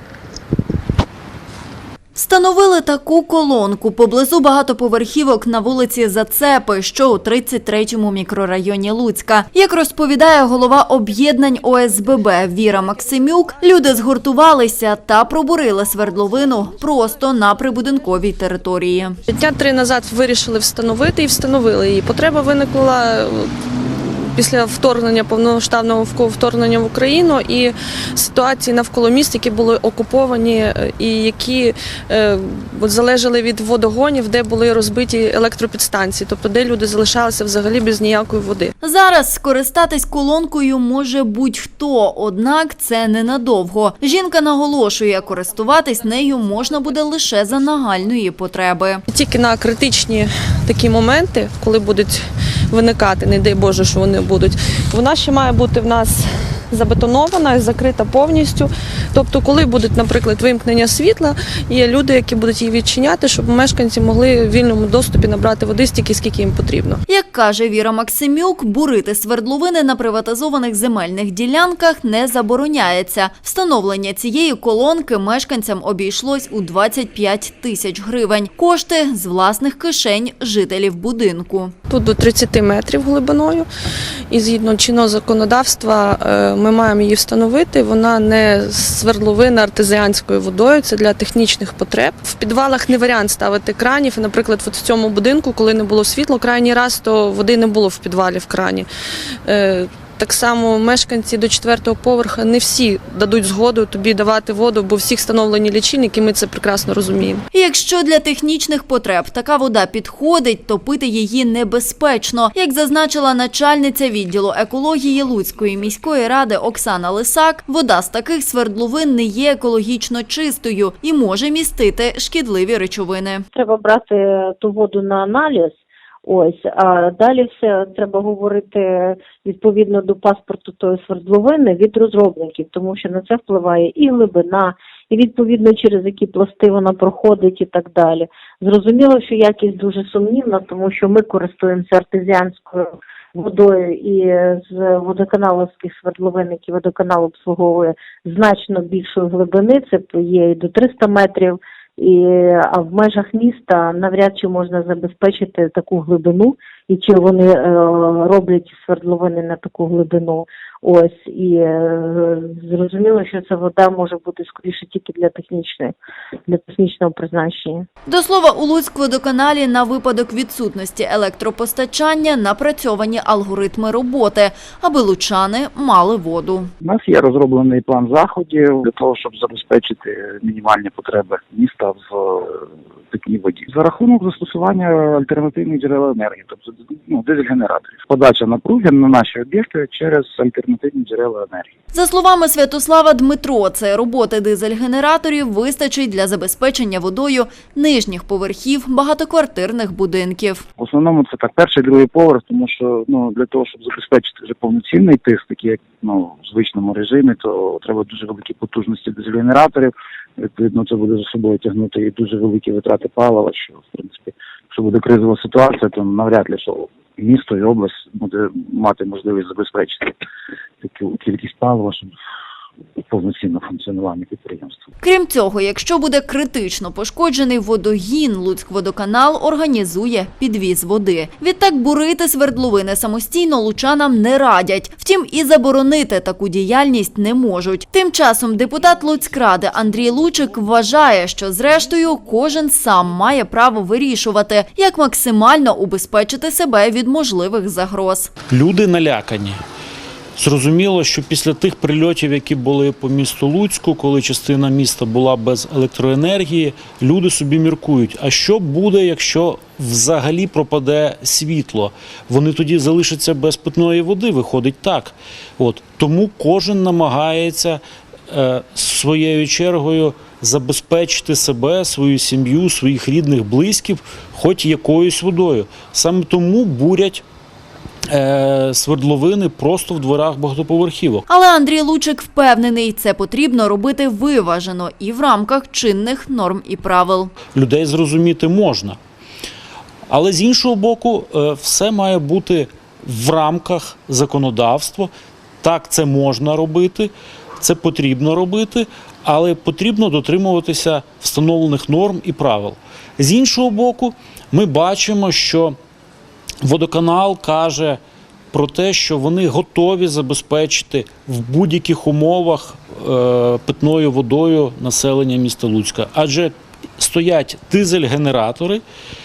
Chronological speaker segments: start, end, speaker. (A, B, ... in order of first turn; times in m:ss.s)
0:02.2-0:19.2 A
0:19.3-0:38.7 B
0:38.8-0:49.0 A
0:49.1-1:07.0 B
1:07.1-1:21.7 A
1:21.9-1:23.7 B
1:24.3-1:38.9 B
1:39.5-1:47.4 B
1:47.5-2:03.4 A
2:03.5-2:45.9 C
2:46.5-2:47.9 C
2:48.1-2:56.7 A
2:56.8-3:11.7 D
3:11.9-3:20.6 A
3:20.8-3:40.2 D
3:40.8-3:42.1 D
3:43.1-3:44.8 D
3:45.0-4:08.3 A
4:08.5-4:09.6 E
4:10.4-4:37.2 E
4:38.1-4:41.2 E
4:41.3-4:47.3 A
4:47.5-4:49.0 E
4:50.1-4:55.1 E
4:55.6-5:05.8 E
5:06.6-5:08.0 E
5:08.5-5:18.8 E